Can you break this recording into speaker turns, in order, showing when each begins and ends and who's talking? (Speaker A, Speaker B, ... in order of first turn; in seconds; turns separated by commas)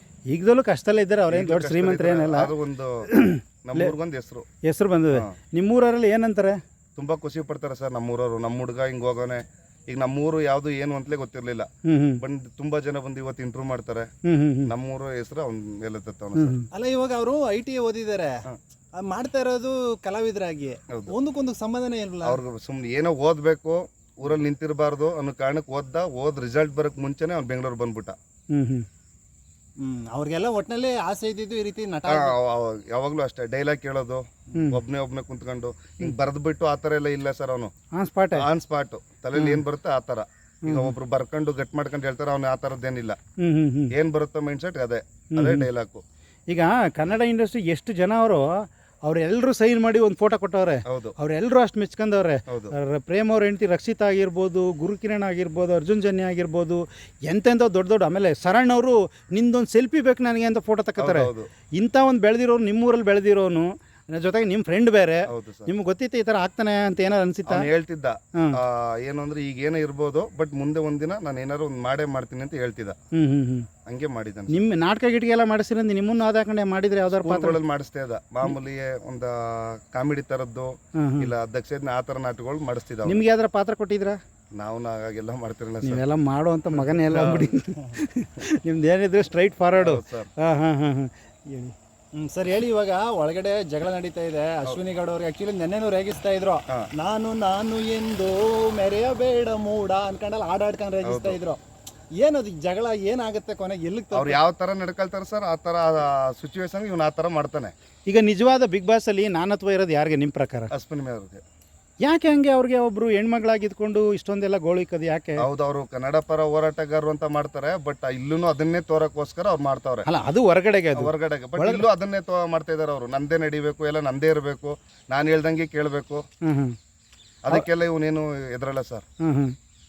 Speaker A: 0.3-2.5, Speaker B: 1.3-3.1, Speaker A: 3.1-3.9, Speaker B: 3.6-4.5, Speaker A: 4.7-6.6, Speaker B: 7.0-11.7, Speaker A: 11.9-12.2, Speaker B: 12.2-14.1, Speaker A: 14.3-14.7, Speaker B: 14.7-16.6, Speaker A: 16.4-16.7, Speaker C: 16.7-18.3, Speaker C: 19.0-22.4, Speaker B: 22.2-28.2, Speaker A: 28.5-28.9, Speaker C: 29.8-32.4, Speaker B: 32.1-37.7, Speaker A: 38.0-38.5, Speaker B: 38.4-43.2, Speaker A: 39.4-39.6, Speaker A: 40.7-40.9, Speaker A: 43.4-43.9, Speaker B: 43.9-46.0, Speaker A: 45.4-45.7, Speaker A: 46.5-48.5, Speaker A: 49.1-67.7, Speaker B: 50.9-51.1, Speaker B: 52.5-52.7, Speaker B: 61.0-61.5, Speaker B: 65.3-65.7, Speaker B: 67.5-73.0, Speaker A: 73.2-73.7, Speaker B: 73.9-74.6, Speaker A: 74.5-77.6, Speaker B: 77.2-83.2, Speaker A: 81.0-81.3, Speaker A: 83.1-84.2, Speaker B: 84.5-86.0, Speaker A: 85.8-91.7, Speaker C: 87.1-88.0, Speaker B: 87.2-87.5, Speaker B: 89.8-90.3, Speaker C: 92.2-101.6, Speaker B: 101.0-101.4, Speaker C: 102.2-104.4, Speaker B: 104.1-107.7, Speaker A: 108.1-110.7, Speaker B: 110.7-111.4, Speaker A: 112.0-115.4, Speaker B: 115.4-120.1, Speaker A: 120.1-121.8, Speaker B: 121.0-126.2, Speaker A: 126.4-126.8, Speaker B: 127.5-129.0, Speaker A: 129.2-129.6